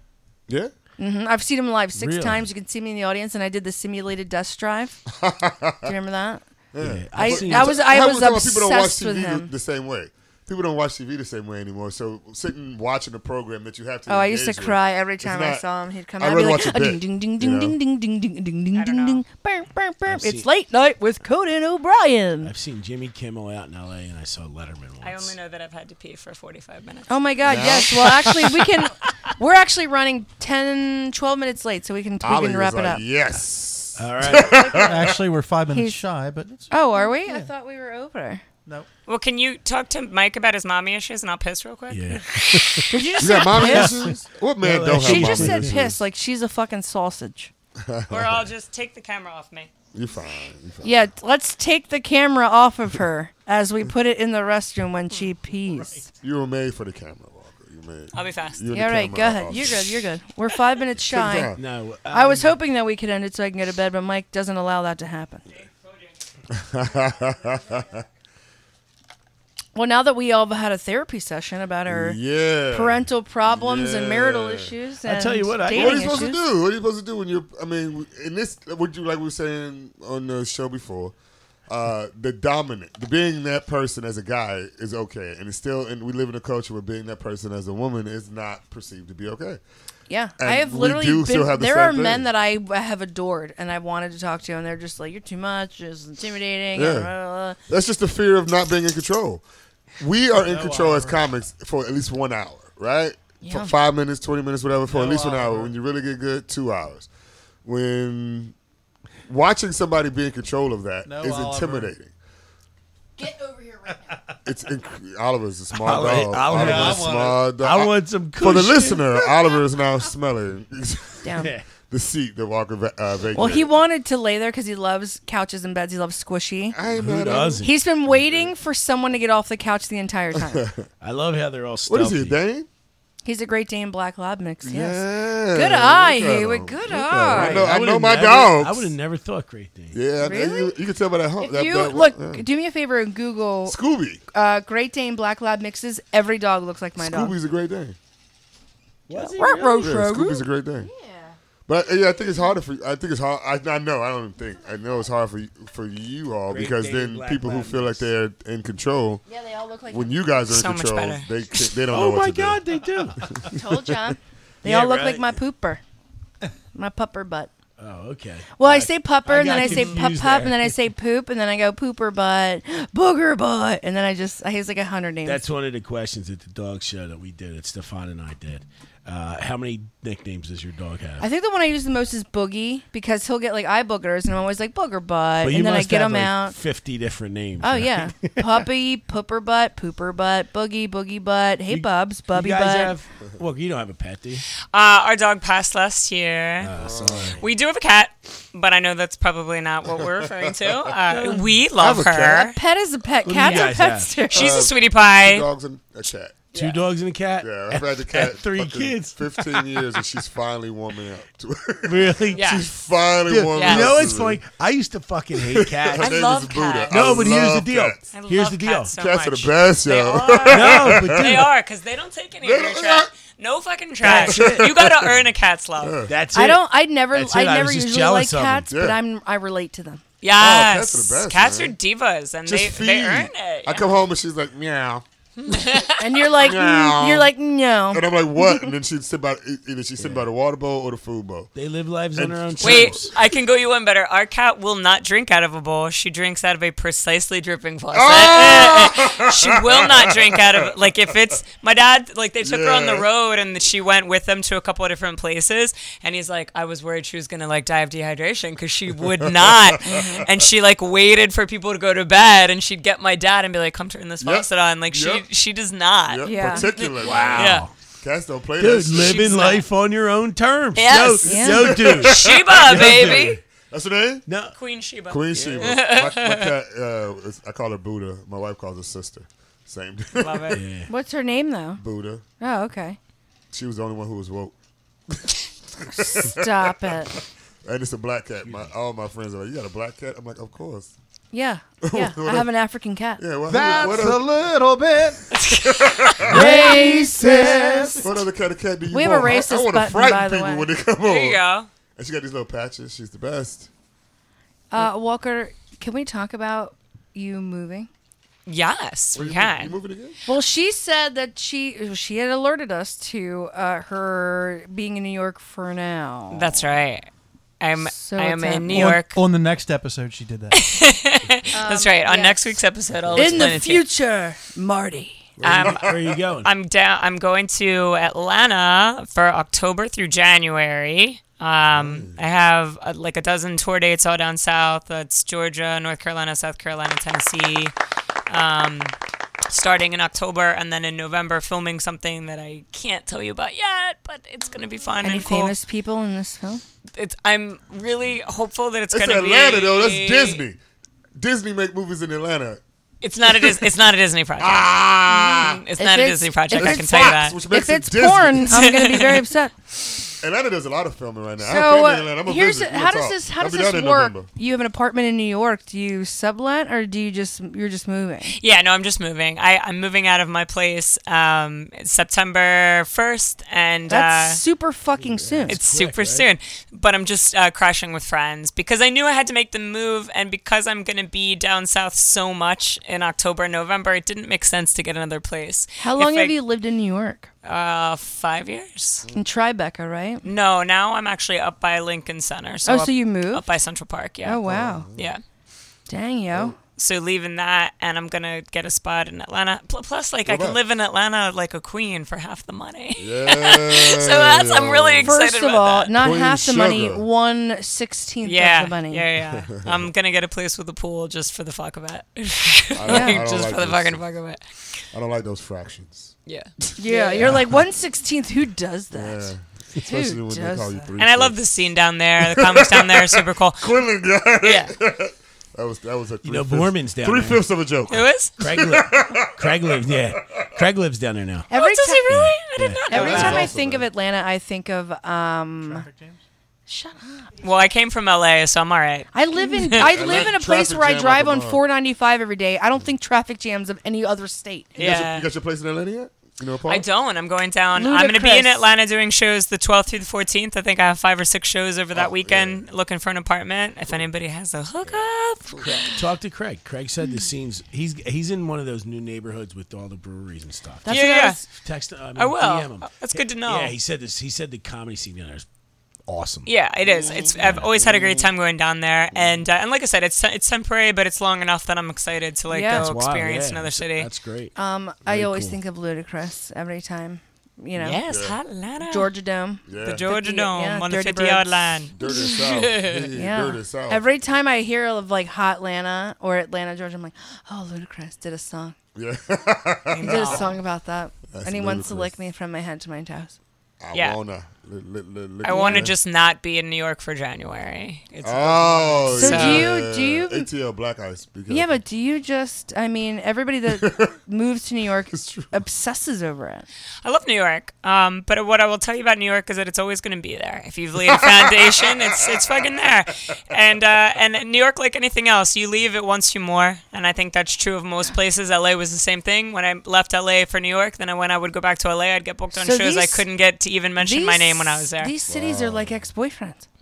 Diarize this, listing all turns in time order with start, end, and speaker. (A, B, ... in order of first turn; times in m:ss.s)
0:01.0-0:05.0 A
0:01.9-0:02.4 B
0:05.1-0:05.9 C
0:05.8-0:06.4 A
0:06.7-0:15.6 C
0:06.8-0:08.0 B
0:07.1-0:09.5 A
0:14.1-0:22.5 A
0:16.2-0:17.8 C
0:18.7-0:19.2 D
0:20.0-0:20.5 B
0:22.4-0:25.4 B
0:25.0-0:27.1 D
0:27.1-0:33.0 A
0:27.4-0:28.5 C
0:32.2-0:35.2 C
0:34.0-0:34.6 B
0:34.3-0:35.1 A
0:34.8-0:37.5 E
0:35.7-0:36.0 A
0:36.7-0:38.4 A
0:39.1-0:42.9 D
0:41.9-0:45.8 B
0:42.9-0:44.1 A
0:43.2-0:46.0 C
0:44.9-0:47.5 A
0:47.8-0:48.5 C
0:48.1-0:49.7 D
0:49.9-0:51.1 C
0:50.8-0:56.1 A
0:56.2-0:59.8 C
0:58.1-0:58.6 D
0:58.7-1:01.5 A
1:01.0-1:01.6 C
1:01.5-1:02.5 B
1:02.1-1:05.4 A
1:06.5-1:08.0 C
1:09.7-1:12.2 A
1:11.9-1:14.7 C
1:12.7-1:16.4 A
1:15.0-1:16.3 B
1:15.7-1:21.1 C
1:21.7-1:29.6 C
1:30.1-1:37.6 A
1:30.4-1:32.3 C
1:36.7-1:37.1 C
1:37.7-1:39.4 C
1:40.0-1:47.1 C
1:40.3-1:41.3 E
1:43.4-1:43.7 A
1:44.9-1:45.7 E
1:47.6-1:48.5 C
1:49.3-1:52.1 C
1:51.0-1:51.9 E
1:53.3-1:53.9 A
1:54.4-2:01.3 C
1:55.7-1:59.2 B
1:56.4-1:57.4 E
2:01.2-2:01.5 A
2:01.4-2:01.6 B
2:01.9-2:03.7 C
2:03.3-2:06.8 A
2:06.7-2:08.5 C
2:06.9-2:07.7 B
2:07.6-2:10.6 A
2:10.4-2:10.9 C
2:11.0-2:12.4 B
2:11.9-2:12.7 C
2:13.2-2:17.7 A
2:14.6-2:18.9 C
2:17.3-2:20.0 B
2:19.9-2:22.4 C
2:20.2-2:20.8 A
2:21.4-2:23.8 A
2:23.7-2:24.2 C
2:24.3-2:27.3 A
2:27.0-2:28.0 C
2:29.1-2:29.9 B
2:29.1-2:31.3 A
2:29.8-2:30.9 C
2:31.7-2:39.2 C
2:36.5-2:38.1 B
2:39.3-2:40.2 A
2:39.9-2:42.6 C
2:40.4-2:41.6 D
2:41.9-2:43.2 B
2:43.3-2:43.8 C
2:43.5-2:45.8 A
2:44.6-2:45.4 B
2:46.7-2:47.5 A
2:47.8-2:50.8 B
2:48.6-2:55.4 A
2:49.5-2:49.9 D
2:55.2-3:01.2 B
3:01.2-3:06.5 A
3:05.4-3:08.6 B
3:07.6-3:13.0 A
3:11.7-3:14.4 B
3:14.7-3:16.7 D
3:16.6-3:17.4 B
3:16.8-3:17.4 C
3:17.4-3:22.6 D
3:20.0-3:20.5 C
3:21.1-3:21.5 B
3:21.8-3:22.5 C
3:22.4-3:24.6 A
3:23.2-3:24.2 B
3:23.4-3:23.7 D
3:24.3-3:26.4 C
3:24.3-3:25.4 D
3:26.5-3:26.8 D
3:26.5-3:29.8 B
3:27.4-3:34.4 C
3:31.8-3:32.4 B
3:32.3-3:32.6 D
3:33.3-3:36.2 B
3:33.5-3:34.0 D
3:35.4-3:38.0 C
3:36.0-3:37.3 D
3:36.9-3:38.9 B
3:38.1-3:46.0 D
3:38.9-3:41.5 C
3:40.5-3:41.5 B
3:42.4-3:43.1 C
3:44.0-3:44.7 B
3:44.0-3:45.2 C
3:45.8-3:46.1 C
3:46.1-3:48.7 B
3:46.3-3:50.0 A
3:48.7-3:49.0 C
3:50.2-3:53.9 D
3:50.4-3:51.7 C
3:52.4-3:55.0 C
3:55.4-3:56.0 D
3:56.0-3:58.7 A
3:56.4-3:57.3 C
3:57.9-4:01.5 C
4:00.0-4:00.3 B
4:01.5-4:03.1 B
4:02.1-4:03.1 C
4:02.6-4:27.6 D
4:07.9-4:10.5 C
4:12.4-4:13.0 C
4:19.4-4:20.0 C
4:19.8-4:20.2 A
4:24.2-4:25.2 C
4:26.1-4:29.5 C
4:26.2-4:26.7 A
4:27.0-4:27.7 B
4:28.6-4:33.4 B
4:28.9-4:29.6 D
4:30.8-4:33.4 D
4:31.2-4:31.6 A
4:31.5-4:34.2 C
4:34.3-4:34.5 B
4:34.5-4:36.5 D
4:35.1-4:40.6 C
4:35.3-4:35.8 B
4:40.2-4:40.6 D
4:40.5-4:40.9 B
4:40.9-4:41.8 A
4:41.8-4:42.2 C
4:42.4-4:43.0 A
4:43.5-4:44.5 C
4:45.1-4:50.9 C
4:45.9-4:47.1 A
4:48.4-4:48.7 B
4:51.3-4:53.2 A
4:51.8-4:52.5 C
4:53.2-4:54.3 C
4:53.5-4:55.2 E
4:55.3-4:56.1 D
4:55.4-4:56.5 C
4:56.3-4:58.1 A
4:56.3-4:56.9 B
4:56.4-4:58.0 E
4:58.0-5:01.4 C
4:58.9-5:00.7 A
5:01.0-5:01.7 D
5:02.0-5:03.7 C
5:04.7-5:07.9 A
5:08.4-5:09.8 D
5:09.1-5:10.2 C
5:10.3-5:16.6 A
5:16.3-5:17.1 D
5:17.6-5:19.2 D
5:17.8-5:18.9 A
5:18.7-5:20.6 E
5:20.5-5:23.8 D
5:21.5-5:22.5 A
5:23.0-5:23.5 C
5:23.1-5:25.3 A
5:25.4-5:26.2 C
5:25.4-5:37.7 D
5:25.4-5:26.5 B
5:31.6-5:32.2 C
5:38.3-5:38.9 D
5:39.5-5:45.5 D
5:45.0-5:46.6 A
5:47.0-5:50.4 D
5:48.9-5:50.6 C
5:51.2-5:52.6 C
5:53.0-5:57.4 D
5:53.2-5:53.7 C
5:54.4-5:55.6 C
5:55.8-5:59.5 A
5:56.6-5:58.7 C
5:58.5-5:59.2 D
6:00.2-6:04.3 C
6:01.4-6:08.3 A
6:08.3-6:14.4 D
6:13.9-6:15.6 A
6:15.0-6:16.3 B
6:15.5-6:26.3 D
6:25.8-6:27.3 A
6:27.4-6:29.0 D
6:29.1-6:30.2 A
6:30.2-6:34.4 D
6:32.6-6:33.4 A
6:34.2-6:34.9 A
6:34.4-6:35.1 C
6:35.0-6:35.2 D
6:35.9-6:36.6 A
6:36.8-6:45.9 D
6:40.2-6:40.6 C
6:43.0-6:45.2 C
6:45.0-6:49.0 A
6:45.9-6:47.0 C
6:48.2-6:54.4 D
6:49.2-6:49.9 C
6:52.8-6:54.0 C
6:52.8-6:53.2 A
6:54.9-6:56.1 C
6:56.2-6:57.3 D
6:56.8-6:59.3 A
6:58.9-7:01.4 C
6:59.8-7:00.9 A
7:01.0-7:03.7 D
7:02.2-7:09.9 C
7:04.4-7:04.7 D
7:06.2-7:07.4 B
7:07.9-7:08.3 D
7:08.4-7:11.5 B
7:11.5-7:12.3 A
7:11.5-7:13.5 D
7:12.1-7:13.4 B
7:12.9-7:15.9 A
7:12.9-7:13.9 C
7:15.6-7:16.2 E
7:16.7-7:17.3 A
7:17.4-7:20.3 D
7:19.1-7:24.7 A
7:19.8-7:21.6 C
7:24.8-7:26.8 C
7:24.8-7:25.3 D
7:26.7-7:36.0 D
7:27.7-7:28.6 A
7:31.9-7:32.6 C
7:34.8-7:35.8 C
7:35.6-7:45.4 B
7:40.8-7:41.4 A
7:40.9-7:41.4 D
7:42.2-7:43.7 D
7:46.1-7:46.5 B
7:46.4-7:54.1 D
7:46.8-7:48.3 C
7:47.4-7:47.8 B
7:52.5-7:52.9 A
7:52.7-7:54.5 B
7:54.6-7:58.0 A
7:55.0-7:55.6 B
7:57.8-7:59.1 D
7:58.1-7:58.4 C
7:58.8-8:01.5 A
7:59.7-8:00.0 C
7:59.8-8:03.1 D
8:01.9-8:04.0 C
8:03.1-8:08.7 A
8:08.9-8:10.5 C
8:09.9-8:10.5 D
8:10.0-8:13.4 A
8:11.3-8:12.1 C
8:13.8-8:15.9 C
8:13.9-8:14.2 D
8:15.4-8:19.7 D
8:15.5-8:15.9 A
8:18.2-8:21.8 C
8:19.1-8:20.5 A
8:21.5-8:26.6 A
8:23.7-8:24.1 C
8:25.1-8:25.5 C
8:27.0-8:45.1 D
8:31.1-8:32.7 C
8:42.5-8:43.2 A
8:44.0-8:46.6 A
8:45.3-8:46.0 C